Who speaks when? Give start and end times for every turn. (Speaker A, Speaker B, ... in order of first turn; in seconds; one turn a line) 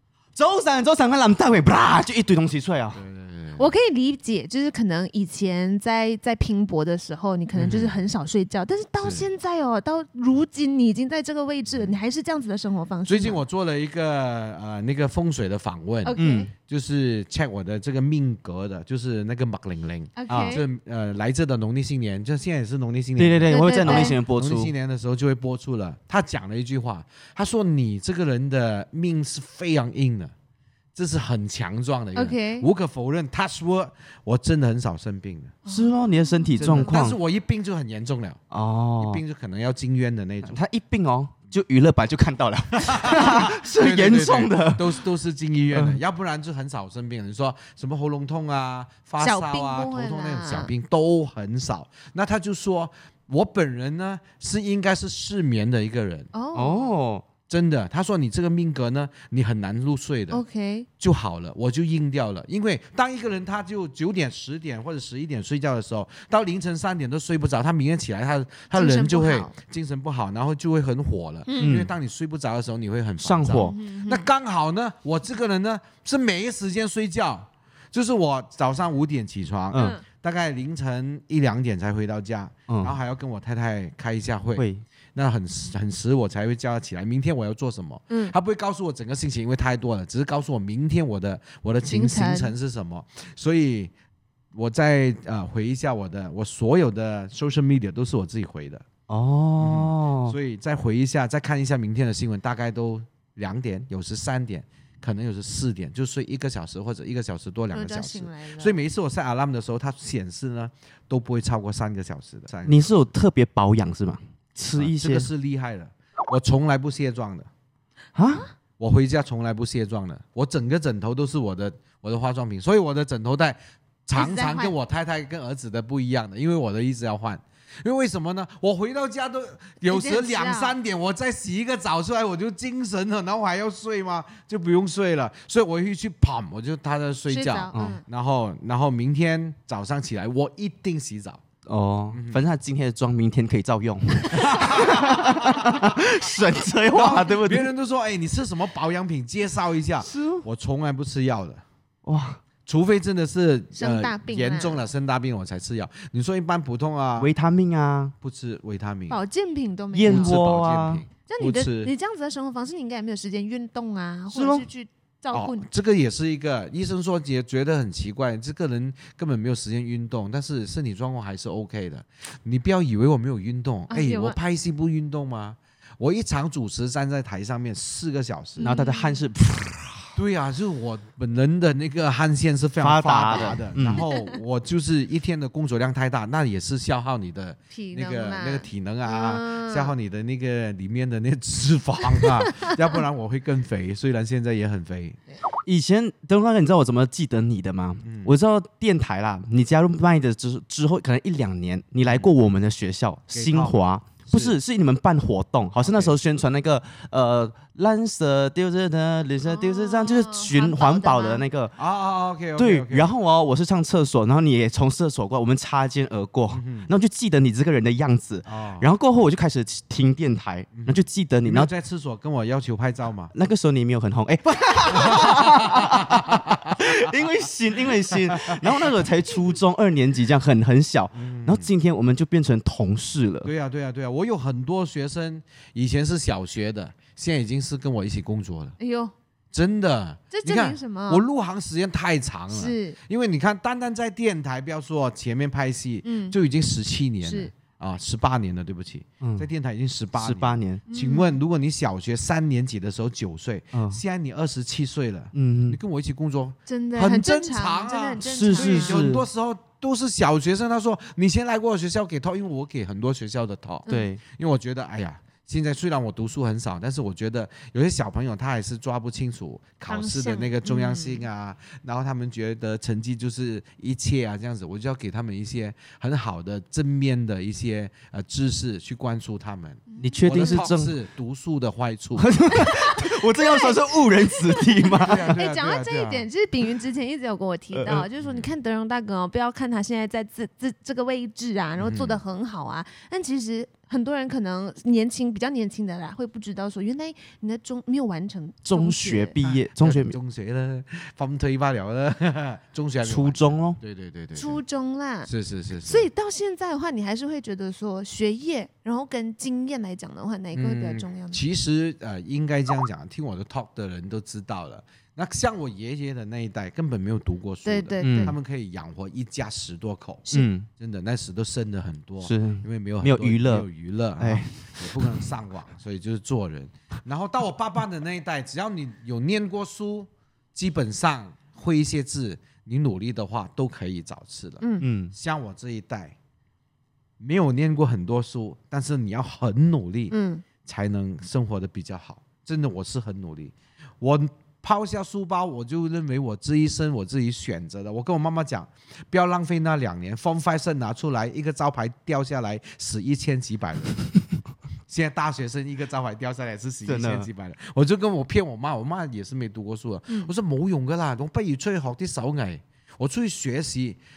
Speaker A: 0.3-3.0
Speaker B: 3.0-3.7
Speaker C: 3.6-13.4
Speaker B: 7.5-8.0
Speaker B: 9.0-9.3
Speaker B: 11.7-11.9
Speaker B: 13.1-30.3
Speaker C: 16.0-16.5
Speaker A: 16.2-16.5
Speaker C: 20.2-20.6
Speaker A: 20.3-20.6
Speaker A: 23.2-24.7
Speaker C: 23.5-24.2
Speaker B: 30.9-35.6
Speaker C: 32.1-32.7
Speaker C: 35.7-35.9
Speaker A: 35.7-37.2
Speaker B: 36.6-38.4
Speaker A: 38.5-39.2
Speaker B: 39.0-40.6
Speaker A: 40.5-45.0
Speaker B: 42.7-56.3
Speaker A: 45.7-46.0
Speaker C: 49.2-50.7
Speaker C: 56.3-56.9
Speaker A: 56.5-57.2
Speaker B: 57.5-60.4
Speaker C: 60.3-60.9
Speaker B: 61.0-93.9
Speaker C: 68.7-69.5
Speaker C: 71.5-71.8
Speaker A: 71.6-71.9
Speaker A: 73.2-73.7
Speaker C: 73.5-74.3
Speaker A: 79.7-80.0
Speaker C: 79.7-80.0
Speaker A: 82.7-83.0
Speaker A: 84.6-84.8
Speaker C: 91.9-92.5
Speaker B: 94.5-98.9
Speaker A: 99.1-100.4
Speaker B: 99.6-112.9
Speaker C: 107.7-108.8
Speaker A: 112.7-115.3
Speaker B: 114.7-117.5
Speaker A: 118.2-118.5
Speaker B: 118.8-141.4
Speaker C: 124.2-124.7
Speaker C: 129.9-130.8
Speaker C: 137.3-138.1
Speaker A: 137.7-138.0
Speaker A: 141.7-147.7
Speaker B: 142.1-142.4
Speaker B: 144.3-146.0
Speaker B: 146.9-151.6
Speaker A: 150.1-150.4
Speaker A: 152.1-152.4
Speaker B: 152.7-157.3
Speaker C: 153.7-154.8
Speaker A: 157.2-158.1
Speaker B: 158.2-159.2
Speaker C: 159.1-160.3
Speaker A: 159.9-161.0
Speaker B: 160.1-161.9
Speaker C: 161.3-165.6
Speaker A: 164.3-164.7
Speaker B: 165.3-178.7
Speaker C: 173.9-174.4
Speaker C: 178.6-179.2
Speaker A: 178.6-180.2
Speaker B: 180.2-195.2
Speaker A: 182.8-184.1
Speaker C: 184.1-184.4
Speaker C: 187.7-189.9
Speaker A: 195.7-211.7
Speaker B: 198.0-198.3
Speaker B: 203.3-204.6
Speaker B: 205.8-206.2
Speaker C: 209.4-211.4
Speaker B: 211.8-213.1
Speaker A: 212.6-221.7
Speaker B: 216.5-216.9
Speaker B: 218.5-218.9
Speaker B: 220.7-223.3
Speaker A: 223.3-233.5
Speaker B: 225.0-226.8
Speaker B: 228.1-228.6
Speaker B: 231.1-231.7
Speaker B: 233.4-238.8
Speaker C: 238.8-239.1
Speaker B: 239.5-282.3
Speaker C: 240.3-241.2
Speaker C: 242.5-243.0
Speaker C: 246.0-246.3
Speaker C: 247.2-247.5
Speaker A: 249.2-249.5
Speaker A: 250.2-250.8
Speaker C: 250.9-251.4
Speaker A: 253.7-254.0
Speaker A: 255.3-255.8
Speaker C: 256.7-259.1
Speaker A: 258.2-259.3
Speaker A: 263.9-264.2
Speaker C: 269.9-271.3
Speaker C: 279.9-280.6
Speaker A: 280.0-280.9
Speaker A: 282.2-285.4
Speaker C: 282.6-299.4
Speaker B: 285.0-286.3
Speaker A: 287.7-288.1
Speaker B: 288.2-288.5
Speaker B: 291.8-292.2
Speaker A: 298.6-300.2
Speaker B: 299.4-304.6
Speaker A: 303.1-303.8
Speaker C: 304.4-305.3
Speaker B: 305.3-306.1
Speaker C: 305.9-311.4
Speaker B: 310.5-336.2
Speaker C: 317.6-318.4
Speaker A: 318.0-318.4
Speaker A: 320.3-320.7
Speaker A: 322.2-323.7
Speaker A: 324.2-325.2
Speaker C: 334.6-334.9
Speaker A: 334.8-335.1
Speaker B: 337.2-354.0
Speaker C: 340.1-340.4
Speaker B: 354.9-364.0
Speaker A: 356.9-357.3